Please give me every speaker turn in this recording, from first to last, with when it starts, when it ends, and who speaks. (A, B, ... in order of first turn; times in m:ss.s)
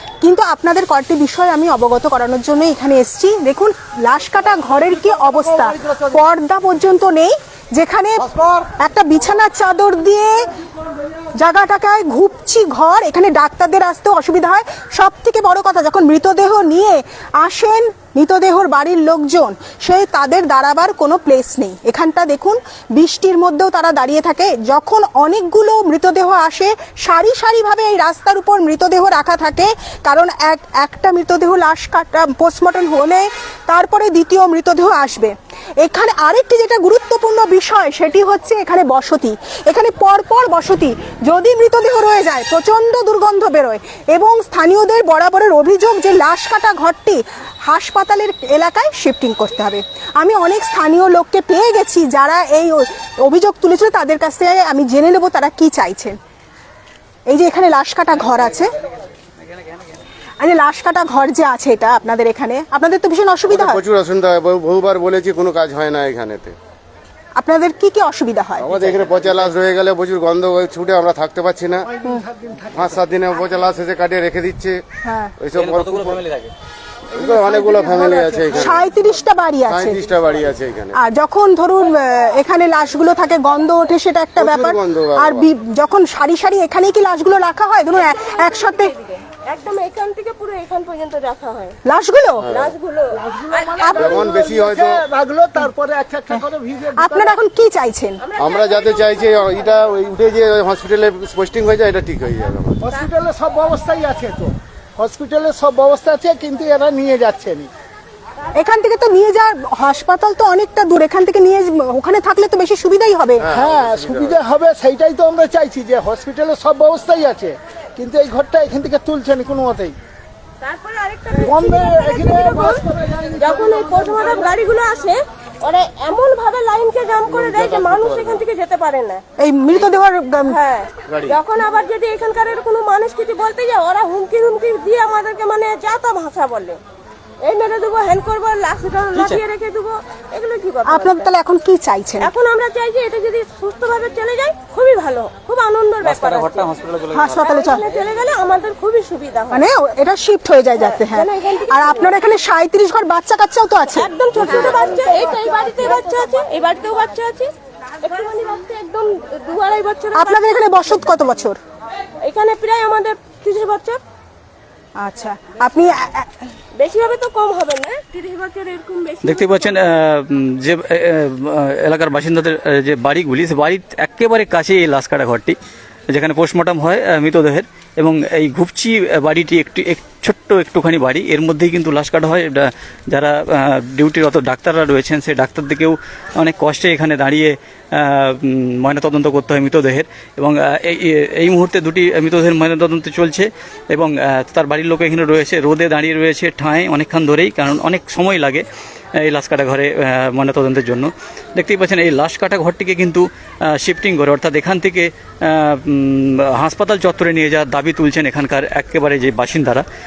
0:00.2-0:10.4 A
0:11.4-0:56.2 A
0:57.3-0:58.7 A
1:00.4-1:03.8 A
1:03.5-1:06.5 B
1:07.4-1:08.7 A
1:08.6-1:11.9 B
1:08.8-1:09.5 C
1:11.8-1:13.1 D
1:12.7-1:14.8 B
1:15.0-1:15.3 A
1:15.4-1:16.2 B
1:15.5-1:16.5 C
1:17.1-1:18.8 D
1:17.1-1:18.8 B
1:18.5-1:20.0 A
1:19.6-1:20.9 B
1:20.9-1:28.9 A
1:24.4-1:25.4 B
1:27.9-1:31.8 E
1:31.8-1:32.4 A
1:32.4-1:32.7 B
1:32.5-1:34.0 E
1:33.1-1:37.4 D
1:33.8-1:34.2 A
1:33.9-1:35.0 B
1:37.0-1:38.2 A
1:38.2-1:39.6 E
1:38.4-1:42.8 B
1:42.8-1:47.7 D
1:48.6-1:53.4 A
1:53.4-1:54.4 B
1:53.5-1:59.9 D
2:00.6-2:02.8 E
2:01.4-2:04.5 D
2:03.4-2:09.2 E
2:07.3-2:08.4 B
2:09.4-2:10.6 A
2:10.5-2:16.8 E
2:11.1-2:11.3 B
2:17.4-2:21.3 E
2:19.1-2:19.4 C
2:20.9-2:22.3 A
2:22.2-2:26.7 E
2:26.0-2:27.5 C
2:27.1-2:27.8 A
2:27.4-2:29.6 E
2:29.5-2:34.7 A
2:30.8-2:32.1 E
2:33.9-2:40.5 E
2:34.7-2:35.7 D
2:40.2-2:41.6 A
2:42.2-2:44.0 E
2:45.0-2:46.3 A
2:46.7-2:49.8 E
2:49.2-2:55.6 C
2:56.1-3:18.6 C
3:19.2-3:29.8 C